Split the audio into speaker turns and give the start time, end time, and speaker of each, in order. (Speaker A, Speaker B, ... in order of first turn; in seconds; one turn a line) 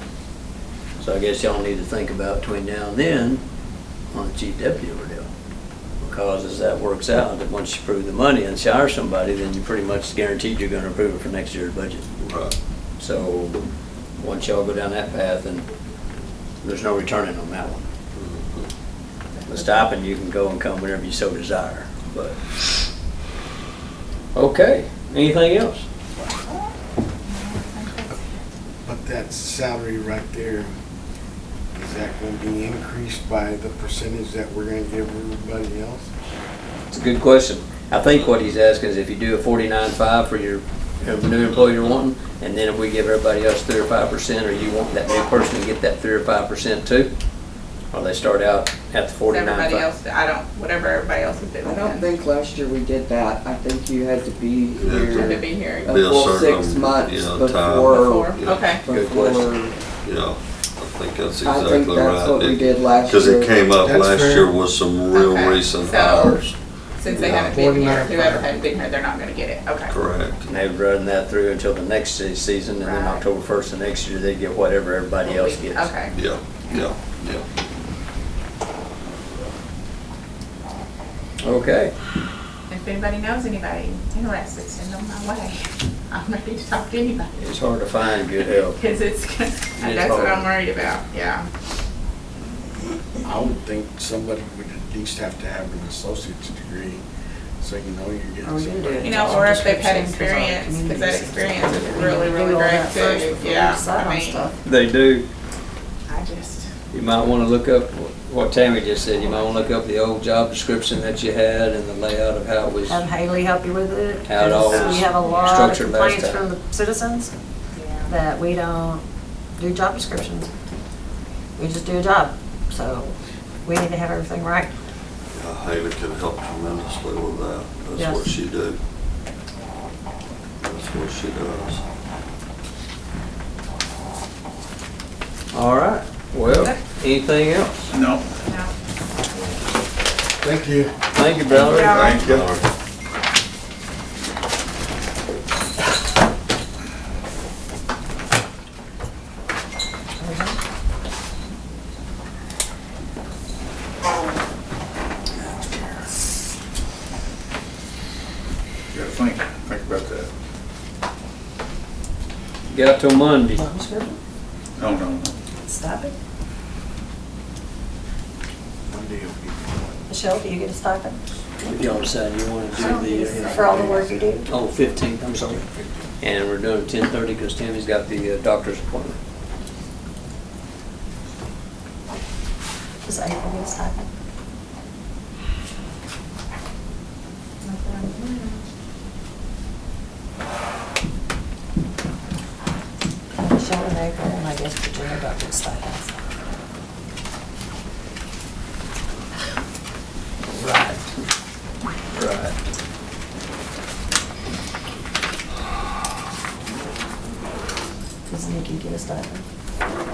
Speaker A: 1.0-3.4
Speaker A: 4.1-5.3
Speaker A: 6.0-12.1
Speaker B: 12.2-12.6
Speaker A: 13.0-13.6
Speaker A: 14.2-15.7
Speaker A: 16.6-17.9
Speaker B: 18.1-18.7
Speaker C: 19.4-19.8
Speaker A: 19.5-22.6
Speaker A: 24.4-25.9
Speaker C: 26.4-26.7
Speaker C: 27.3-28.4
Speaker D: 28.9-30.7
Speaker D: 31.7-36.1
Speaker A: 36.9-47.1
Speaker B: 41.5-42.0
Speaker A: 47.9-49.9
Speaker C: 49.3-52.1
Speaker E: 51.6-59.8
Speaker B: 54.8-58.8
Speaker C: 55.1-56.0
Speaker C: 57.9-58.9
Speaker A: 58.9-59.5
Speaker B: 60.0-66.6
Speaker E: 61.4-63.7
Speaker D: 63.8-64.5
Speaker C: 65.1-66.4
Speaker C: 67.0-69.9
Speaker D: 67.1-68.5
Speaker B: 69.9-70.5
Speaker A: 70.5-75.9
Speaker C: 72.8-73.2
Speaker C: 75.2-76.2
Speaker B: 76.1-77.5
Speaker A: 81.4-81.9
Speaker C: 82.7-87.4
Speaker A: 87.4-88.8
Speaker C: 88.4-91.5
Speaker A: 89.8-90.5
Speaker D: 93.2-97.0
Speaker D: 97.6-99.4
Speaker F: 98.4-104.5
Speaker C: 99.0-104.5
Speaker A: 104.7-105.3
Speaker C: 106.1-106.7
Speaker A: 106.9-113.0
Speaker F: 112.9-117.3
Speaker A: 114.2-116.5
Speaker C: 114.6-115.7
Speaker C: 117.7-118.2
Speaker F: 118.1-119.0
Speaker F: 119.6-120.5
Speaker F: 121.6-124.7
Speaker B: 125.3-128.8
Speaker F: 128.0-128.3
Speaker B: 130.6-131.8
Speaker A: 135.5-137.9
Speaker C: 136.5-136.8
Speaker C: 138.4-138.7
Speaker D: 140.4-140.9
Speaker A: 141.1-142.1
Speaker C: 141.5-142.4
Speaker B: 141.7-142.7
Speaker F: 150.2-150.6
Speaker G: 158.9-160.3
Speaker A: 162.7-163.6
Speaker F: 163.5-164.2
Speaker G: 164.8-165.3
Speaker F: 165.6-166.2
Speaker D: 168.9-170.1
Speaker F: 170.1-171.2
Speaker A: 171.6-175.6
Speaker D: 172.8-174.5
Speaker F: 172.8-174.5
Speaker D: 175.5-176.2
Speaker A: 176.2-179.2
Speaker F: 183.1-184.1
Speaker C: 187.6-188.7
Speaker F: 193.4-196.1
Speaker A: 200.5-201.1
Speaker A: 202.1-202.6
Speaker F: 208.3-209.4